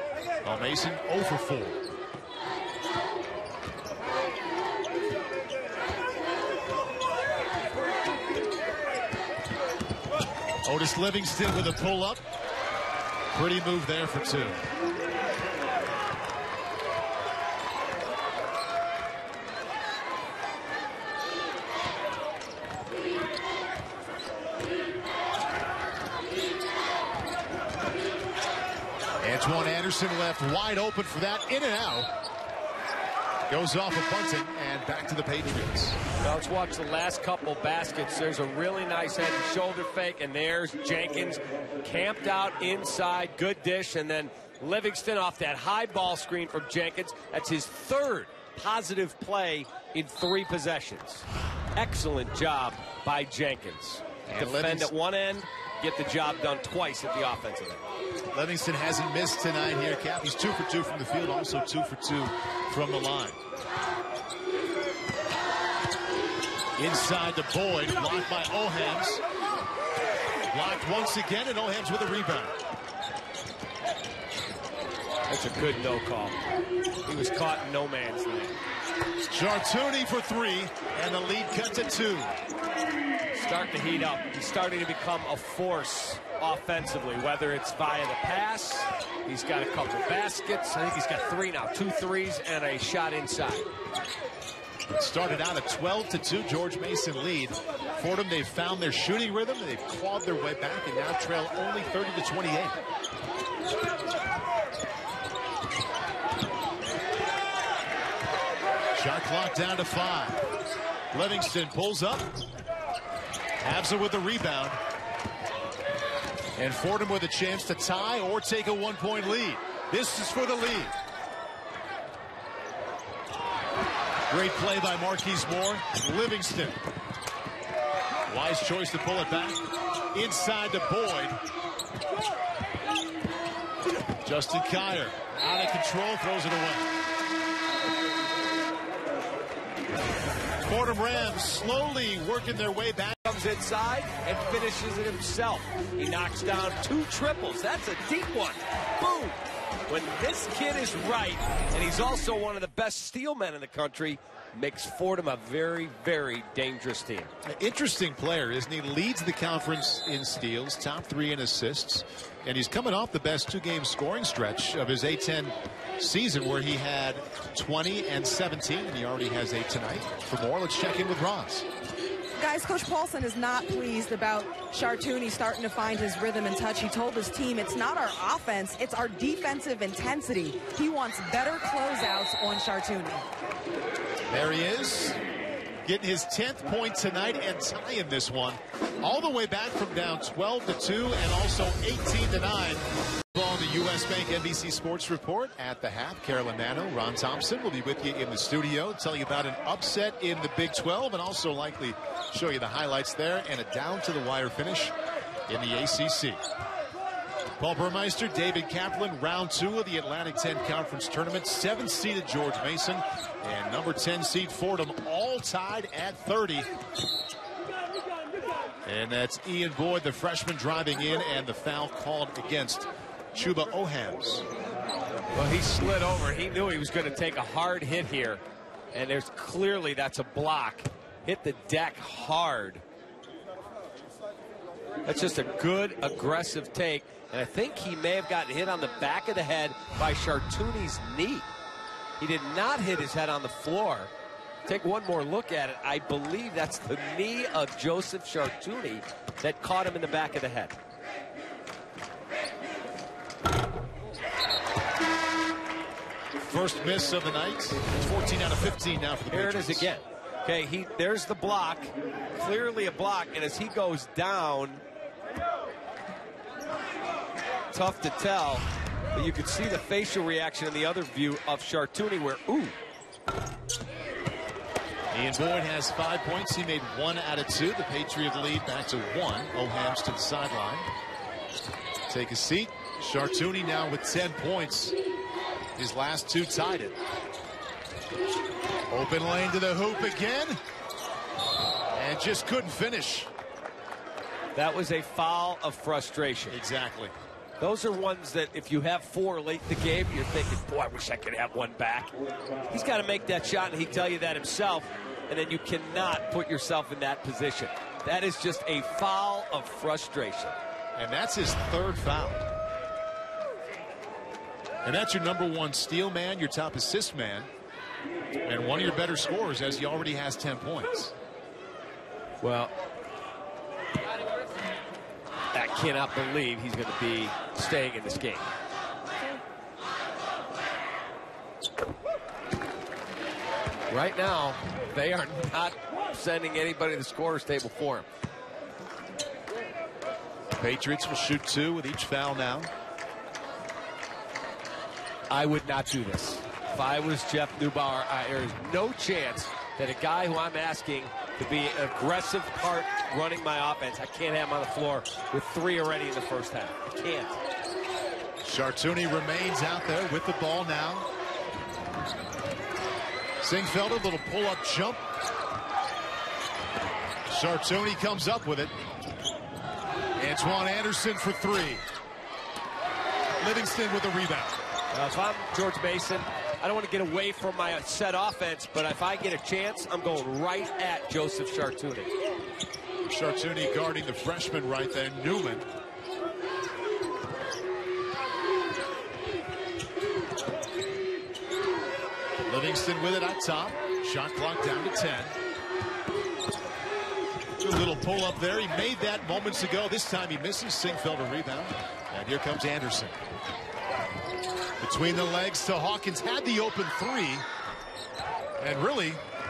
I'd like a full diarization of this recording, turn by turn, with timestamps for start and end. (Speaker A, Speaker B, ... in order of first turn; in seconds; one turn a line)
Speaker A: 0.4-1.8
Speaker A: 10.6-12.2
Speaker A: 13.3-14.6
Speaker A: 29.2-32.1
Speaker A: 33.5-36.0
Speaker B: 36.2-57.8
Speaker A: 54.3-54.9
Speaker A: 58.3-63.4
Speaker A: 66.8-69.2
Speaker A: 70.5-72.6
Speaker B: 75.3-76.4
Speaker B: 77.0-78.6
Speaker A: 79.2-82.3
Speaker B: 83.3-93.7
Speaker A: 95.0-102.8
Speaker A: 109.0-110.5
Speaker A: 111.1-112.3
Speaker A: 113.6-114.8
Speaker A: 116.6-120.9
Speaker A: 124.3-126.8
Speaker A: 128.3-129.6
Speaker A: 130.1-131.4
Speaker A: 134.2-137.0
Speaker A: 140.6-143.2
Speaker B: 143.3-157.3
Speaker A: 157.4-171.7
Speaker C: 172.4-183.3
Speaker A: 184.3-185.2
Speaker A: 185.8-204.9
Speaker A: 205.5-206.4
Speaker A: 207.6-216.7
Speaker A: 218.9-224.4
Speaker B: 225.3-228.4
Speaker B: 228.9-232.8
Speaker B: 235.1-241.5
Speaker B: 242.2-244.1
Speaker B: 244.7-250.8
Speaker A: 256.4-259.9
Speaker B: 259.3-264.8
Speaker B: 267.7-272.8
Speaker A: 275.1-280.9
Speaker A: 282.1-285.0
Speaker A: 285.8-287.0
Speaker A: 288.9-290.6
Speaker A: 291.9-293.3
Speaker B: 294.6-296.6
Speaker A: 296.5-297.1
Speaker B: 297.6-302.1
Speaker B: 302.7-310.6
Speaker A: 311.0-312.5
Speaker A: 314.8-317.5
Speaker A: 318.4-321.1
Speaker B: 322.4-322.7
Speaker B: 325.5-328.5
Speaker B: 333.9-338.1
Speaker A: 340.6-342.7
Speaker B: 345.3-357.4
Speaker A: 358.4-361.1
Speaker A: 363.4-365.0
Speaker A: 367.3-368.7
Speaker A: 370.2-371.8
Speaker A: 373.4-374.6
Speaker B: 374.9-382.1
Speaker A: 383.1-385.7
Speaker A: 392.5-395.4
Speaker A: 397.6-403.1
Speaker A: 404.8-407.5
Speaker A: 408.6-409.2